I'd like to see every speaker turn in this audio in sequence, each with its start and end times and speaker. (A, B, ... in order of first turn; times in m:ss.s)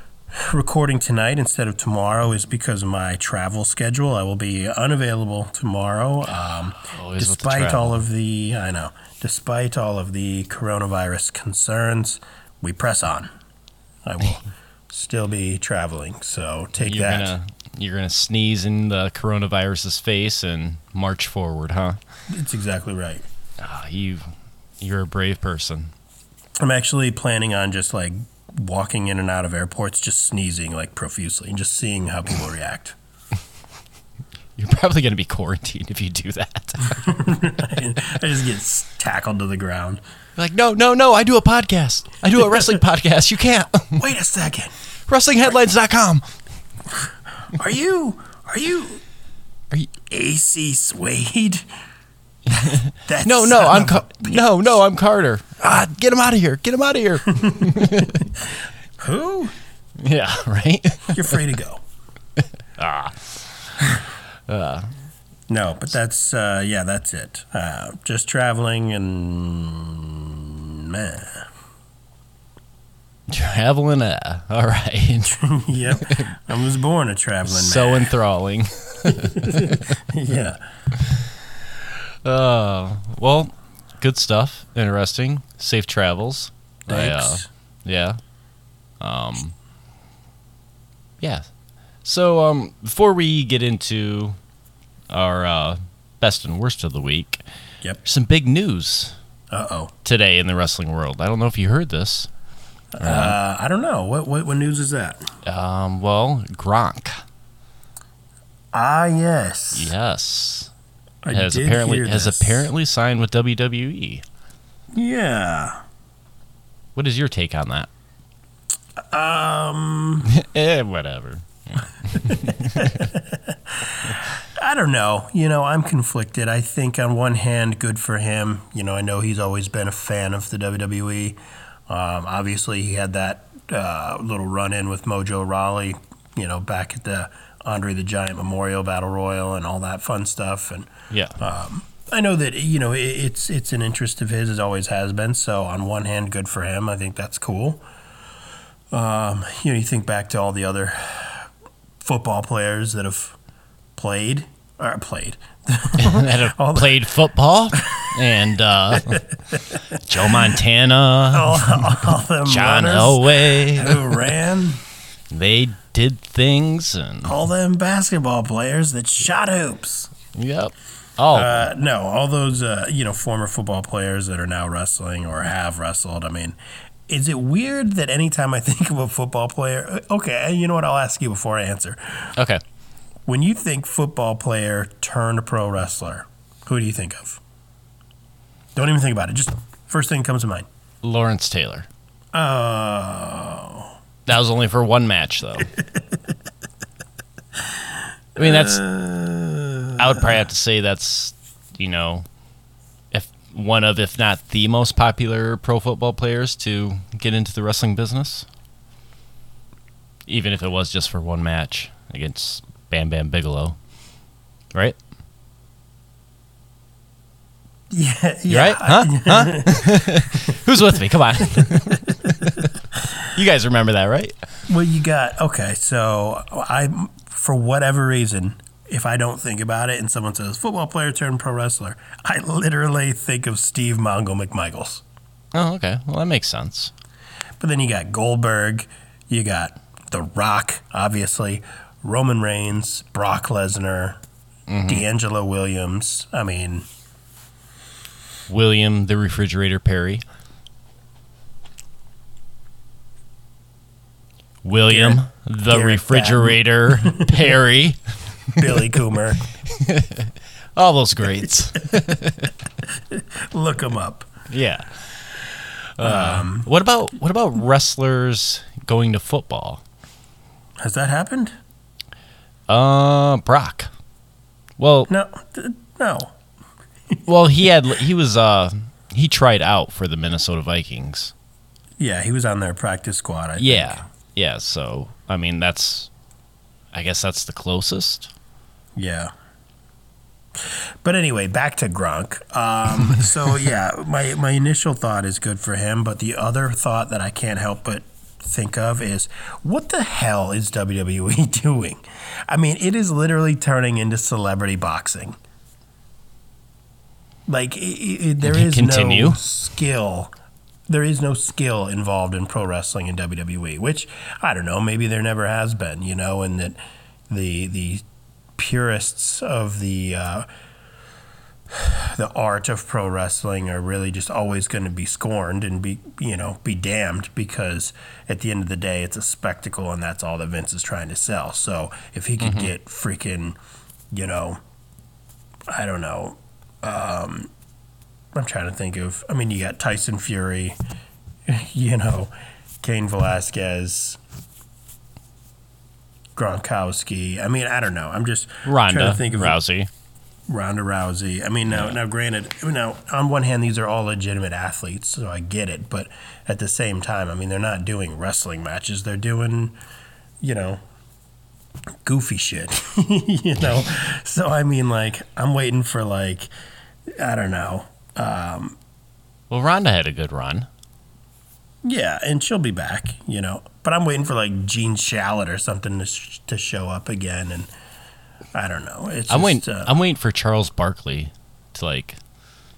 0:00.3-0:13.3 A
0:06.7-0:08.0 B
0:14.0-0:17.4 A
0:16.9-0:22.0 B
0:22.3-0:23.3 A
0:23.6-0:25.9 B
0:26.6-0:33.0 A
0:34.6-0:37.1 B
0:37.0-0:40.0 A
0:40.4-0:44.0 B
0:44.0-0:44.8 A
0:45.1-0:46.3 B
0:47.5-0:49.0 A
0:50.0-0:51.7 A
0:52.5-0:54.8 A
0:52.5-0:58.2 B
0:58.0-0:58.5 A
0:59.0-0:59.6 A
1:00.0-1:01.3 B
1:01.1-1:01.8 A
1:02.8-1:03.8 B
1:04.5-1:05.0 B
1:05.5-1:11.5 A
1:13.3-1:15.4 B
1:15.3-1:18.1 A
1:16.1-1:16.4 B
1:17.4-1:19.8 B
1:19.1-1:20.6 A
1:22.2-1:28.2 B
1:26.9-1:27.5 A
1:29.0-1:29.6 B
1:31.2-1:31.5 B
1:32.0-1:34.4 B
1:35.1-1:37.4 B
1:38.0-1:39.2 B
1:39.5-1:39.9 A
1:40.0-1:42.3 B
1:43.0-1:45.3 A
1:43.0-1:43.4 B
1:45.4-1:47.2 B
1:48.7-1:49.9 A
1:49.7-1:50.7 B
1:51.2-1:52.7 A
1:51.3-1:54.2 B
1:54.9-1:55.8 A
1:57.0-1:57.9 B
1:59.0-2:00.3 A
2:00.3-2:03.1 B
2:02.2-2:27.8 A
2:21.1-2:21.4 B
2:28.9-2:31.5 A
2:32.0-2:33.4 A
2:34.0-2:37.0 A
2:36.0-2:39.2 B
2:37.8-2:38.3 A
2:38.9-2:40.5 A
2:40.0-2:44.2 B
2:41.3-2:44.8 A
2:45.3-2:47.3 B
2:47.2-2:50.1 A
2:50.4-2:51.7 B
2:51.3-2:56.6 A
2:57.1-3:02.4 A
3:02.4-3:02.6 B
3:03.3-3:07.4 A
3:08.8-3:10.7 A
3:11.0-3:11.9 B
3:12.3-3:13.9 A
3:14.3-3:15.7 B
3:17.6-3:20.2 A
3:18.4-3:18.8 B
3:20.0-3:22.2 B
3:23.1-3:28.5 B
3:30.3-3:33.8 B
3:37.9-3:40.6 A
3:38.5-3:42.7 B
3:41.5-3:42.3 A
3:43.2-3:44.4 B
3:44.7-3:55.0 A
3:55.5-3:56.9 B
3:57.6-4:04.2 A
4:04.7-4:05.0 B
4:04.9-4:06.9 A
4:08.5-4:10.2 B
4:14.6-4:18.6 B
4:14.9-4:17.4 A
4:18.6-4:19.5 A
4:19.7-4:22.5 B
4:22.8-4:24.3 A
4:24.5-4:29.8 B
4:26.0-4:26.7 A
4:30.8-4:31.5 A
4:32.7-4:33.9 B
4:34.8-4:35.1 B
4:35.1-4:36.4 A
4:37.3-4:41.3 B
4:42.0-4:44.0 A
4:43.6-4:46.1 B
4:46.9-4:48.3 B
4:49.0-4:49.3 A
4:50.6-5:05.4 A
5:07.5-5:10.3 A
5:08.4-5:09.4 B
5:10.9-5:18.0 A
5:18.6-5:20.5 A
5:21.7-5:33.6 A
5:32.4-5:32.7 B
5:34.1-5:34.6 A
5:35.7-5:37.5 A
5:38.3-5:40.8 A
5:41.5-5:44.2 A
5:46.4-5:49.6 A
5:48.6-5:49.9 B
5:50.5-5:59.8 A
5:51.7-5:52.0 B
6:00.4-6:00.8 A
6:02.0-6:06.5 A
6:07.2-6:08.8 A
6:09.5-6:10.7 B
6:11.8-6:17.7 A
6:18.5-6:20.0 A
6:19.3-6:22.2 B